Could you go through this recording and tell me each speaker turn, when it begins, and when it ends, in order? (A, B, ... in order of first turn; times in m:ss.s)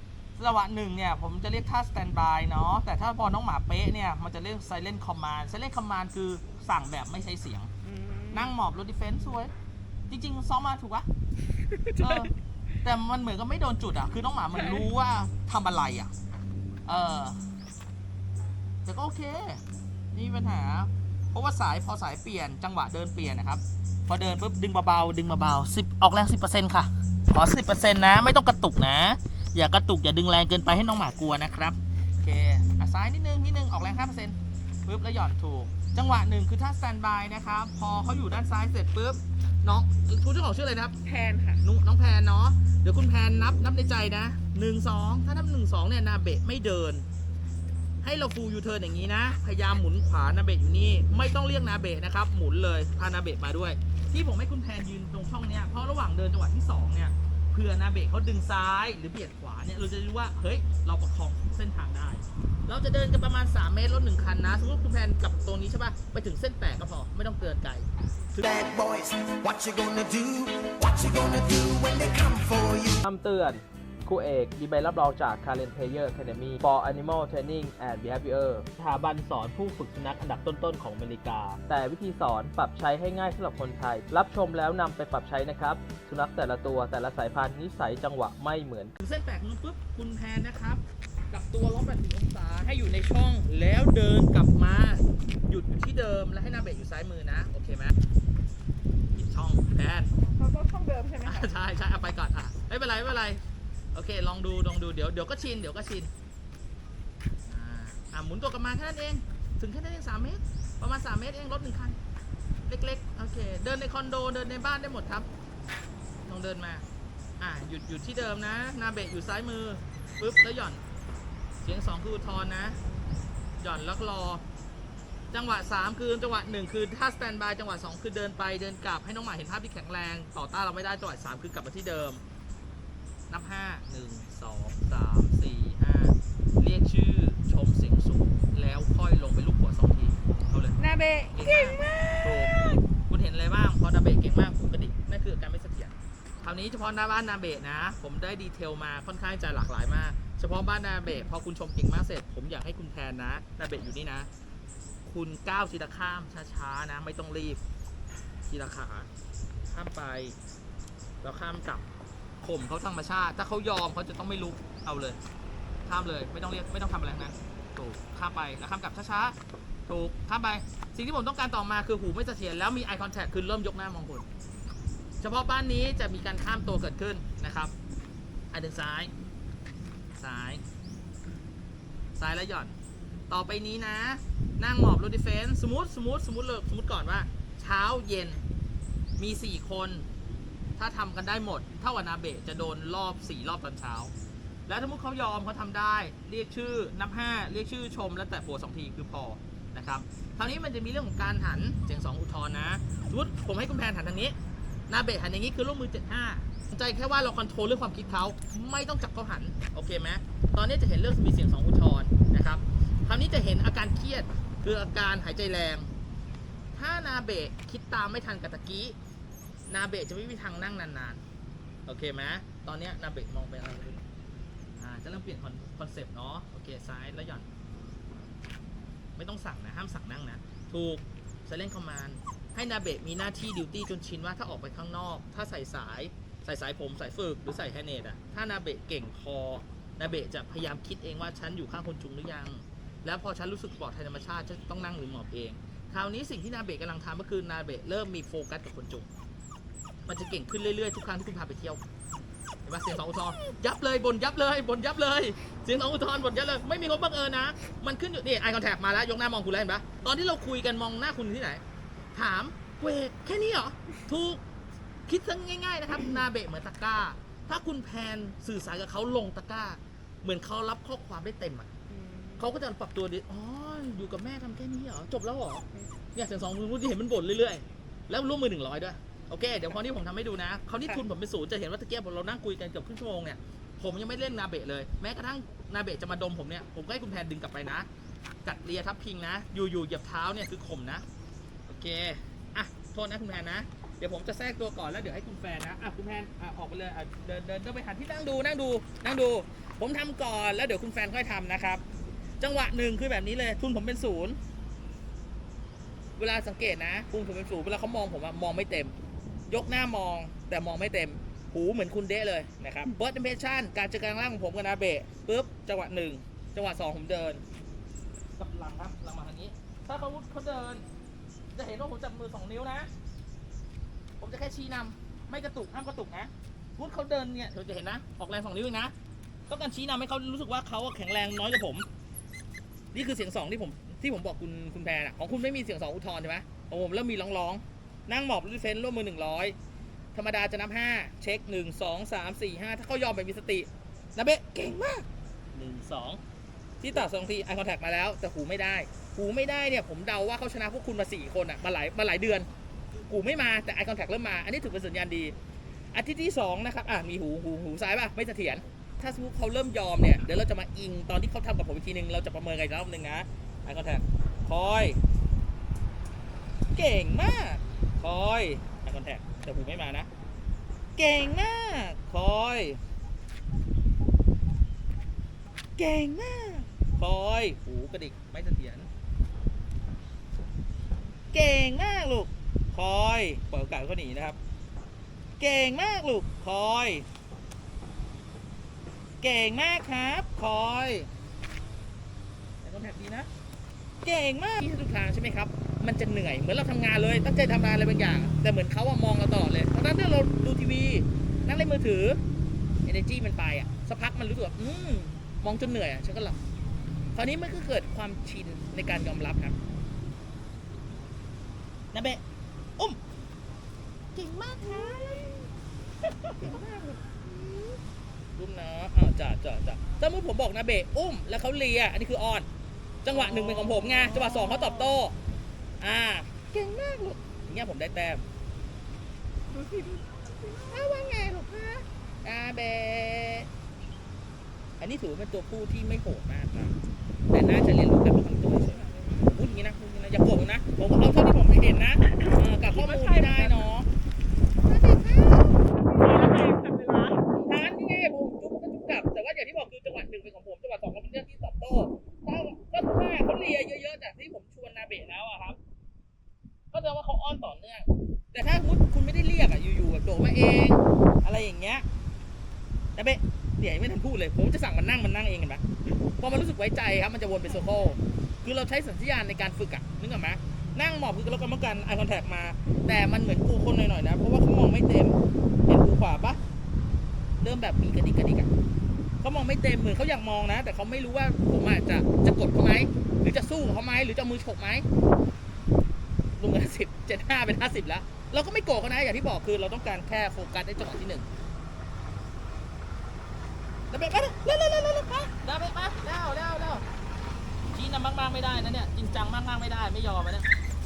0:00.4-0:07.7 A
0:07.8-0:08.5 B
0:08.3-0:09.5 A
0:10.1-0:11.1 A
0:11.7-0:12.2 B
0:12.0-0:16.1 A
0:16.9-0:17.4 A
0:18.8-0:19.6 A
0:20.1-0:40.9 A
0:41.0-0:41.6 B
0:41.6-0:47.0 A
0:48.0-1:07.8 A
1:08.4-1:13.0 C
1:13.0-1:28.9 D
1:29.0-1:37.9 A
1:39.1-1:40.1 A
1:40.2-1:41.5 B
1:41.2-1:43.4 A
1:43.9-1:46.1 A
1:47.4-1:52.0 A
1:52.7-1:55.3 A
1:56.2-1:56.8 A
1:57.4-2:00.8 A
2:01.6-2:02.8 A
2:03.6-2:04.4 A
2:05.3-2:12.2 A
2:13.3-2:20.8 A
2:20.8-2:22.8 B
2:21.3-2:34.3 A
2:35.0-2:37.6 A
2:38.5-2:39.1 A
2:39.7-2:40.4 A
2:41.2-2:41.8 A
2:42.4-2:45.2 A
2:45.8-2:49.4 A
2:49.9-2:54.3 A
2:55.2-2:57.7 A
2:58.5-2:59.1 A
3:00.2-3:00.6 A
3:02.2-3:02.8 A
3:03.3-3:08.4 A
3:09.2-3:10.0 A
3:10.8-3:14.1 A
3:14.7-3:24.4 A
3:24.9-3:35.9 A
3:36.7-3:39.0 A
3:39.7-3:41.2 A
3:41.8-3:44.0 A
3:44.8-3:47.5 A
3:49.2-4:09.1 A
4:10.1-4:11.8 A
4:12.6-4:21.6 A
4:22.1-4:24.4 A
4:25.1-4:31.7 A
4:31.9-4:32.4 B
4:32.4-4:47.9 A
4:48.4-4:51.0 A
4:51.7-5:01.8 A
5:02.4-5:04.4 A
5:06.2-5:08.9 A
5:09.5-5:17.4 A
5:18.4-5:20.8 A
5:21.5-5:22.9 A
5:24.2-5:28.9 A
5:29.5-5:31.8 A
5:32.9-5:39.6 A
5:40.1-5:46.2 A
5:46.8-5:52.5 A
5:53.1-5:55.3 A
5:55.9-6:05.0 A
6:06.7-6:10.1 A
6:11.0-6:12.8 A
6:15.8-6:18.9 A
6:21.3-6:24.4 A
6:25.4-6:27.0 A
6:29.2-6:31.1 A
6:32.6-6:33.3 A
6:34.0-6:42.2 A
6:42.8-6:46.4 A
6:47.1-6:49.6 A
6:51.9-6:52.2 A
6:54.2-6:55.3 A
6:54.6-6:55.4 B
6:56.4-6:57.0 A
6:57.3-6:57.8 B
6:58.4-7:02.5 A
7:03.0-7:05.1 A
7:03.6-7:05.0 B
7:05.8-7:08.2 A
7:09.5-7:10.9 B
7:10.7-7:13.5 A
7:14.8-7:16.8 A
7:17.3-7:23.9 A
7:18.7-7:19.2 B
7:22.1-7:23.7 B
7:24.6-7:25.6 A
7:25.7-7:27.3 B
7:27.4-7:35.6 A
7:36.7-7:41.8 A
7:43.0-7:45.6 A
7:46.2-7:56.4 A
7:57.4-7:58.5 A
7:59.2-8:04.8 A
8:06.4-8:11.2 A
8:13.9-8:16.8 A
8:17.7-8:20.5 A